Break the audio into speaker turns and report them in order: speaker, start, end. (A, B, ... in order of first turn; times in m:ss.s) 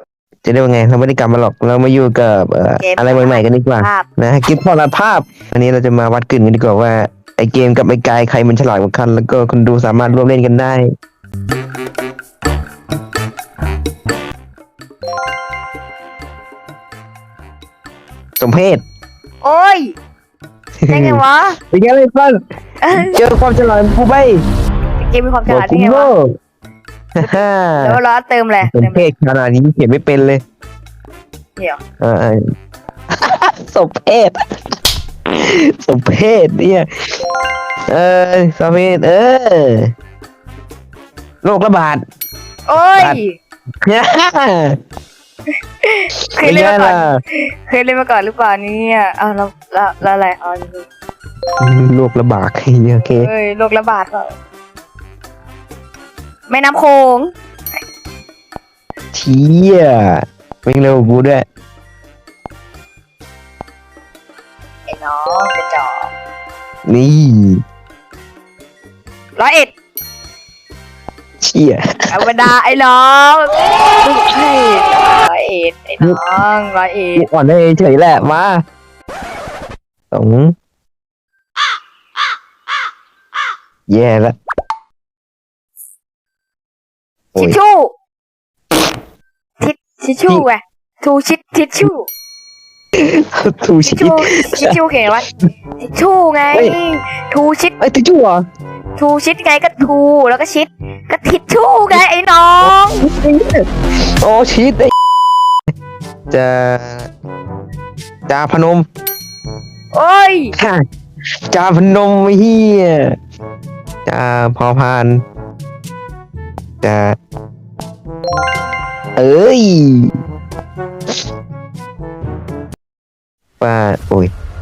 0:00.4-0:10.9 A
0:02.8-0:04.0 B
0:18.4-0:18.8 A
0:19.4-0:19.9 B
0:20.8-0:22.4 A
0:20.9-0:21.6 B
0:22.8-0:23.2 B
0:23.0-0:24.4 A
0:25.0-0:26.1 B
0:25.5-0:26.3 A
0:27.2-0:28.0 A
0:27.2-0:29.1 B
0:28.6-0:30.4 A
0:32.0-0:32.4 A
0:33.2-0:34.4 A
0:35.3-0:36.9 A
0:37.9-0:39.9 A
0:41.4-0:42.0 A
0:42.7-0:43.3 B
0:43.8-0:44.8 A
0:45.8-0:50.8 B
0:46.4-0:47.2 A
0:51.6-0:53.3 A
0:53.2-0:54.3 B
0:56.5-0:57.3 B
0:59.1-1:01.4 A
1:04.9-1:06.1 B
1:06.9-1:07.6 A
1:09.4-1:09.7 B
1:11.4-1:12.2 A
1:12.1-1:17.2 B
1:17.2-1:18.6 A
1:20.1-1:20.5 A
1:23.9-1:24.3 A
1:27.4-1:27.9 B
1:29.6-1:32.1 B
1:33.0-1:34.8 A
1:33.8-1:35.3 B
1:35.8-1:37.8 B
1:37.8-1:38.4 A
1:39.0-1:43.0 B
1:42.6-1:44.9 A
1:46.3-1:47.1 A
1:48.3-1:48.8 A
1:49.9-1:50.5 B
1:50.6-1:50.8 A
1:51.5-1:53.2 A
1:54.0-1:55.2 A
1:56.8-1:57.2 A
1:59.2-2:00.1 A
2:03.6-2:04.3 A